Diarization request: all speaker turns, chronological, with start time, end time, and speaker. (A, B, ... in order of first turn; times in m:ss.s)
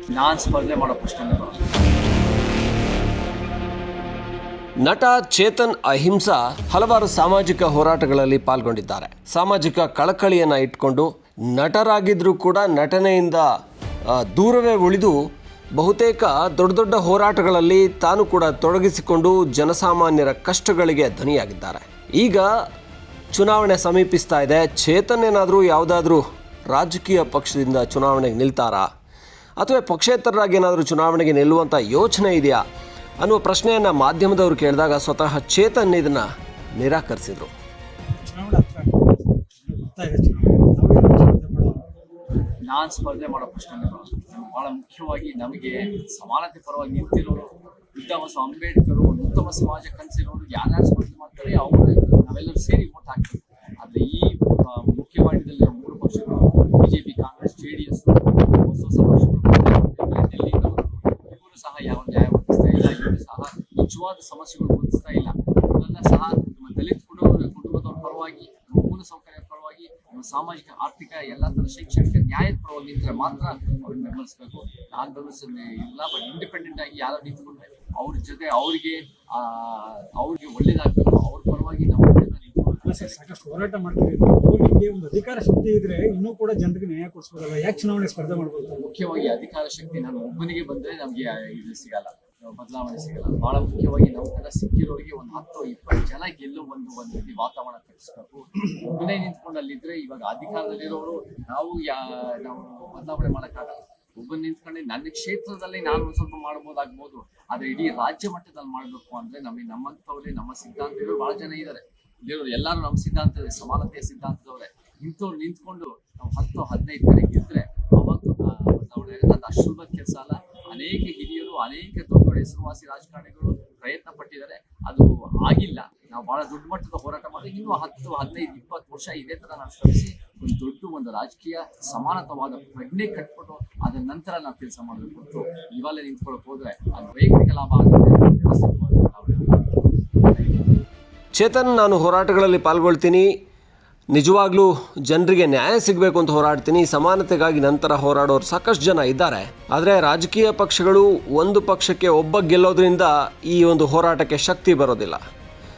0:00.1-0:01.6 A
0:04.8-0:13.4 B
0:14.1-0:15.2 B
0:15.8-0:22.5 B
0:23.3-0:28.9 B
0:29.6-0:32.6 B
0:33.2-0:37.5 B
0:38.1-0:41.8 C
0:42.6-1:23.5 A
1:22.8-1:28.8 C
1:28.8-2:19.7 A
2:20.3-2:20.7 A
2:21.4-2:23.3 B
2:24.1-2:35.2 B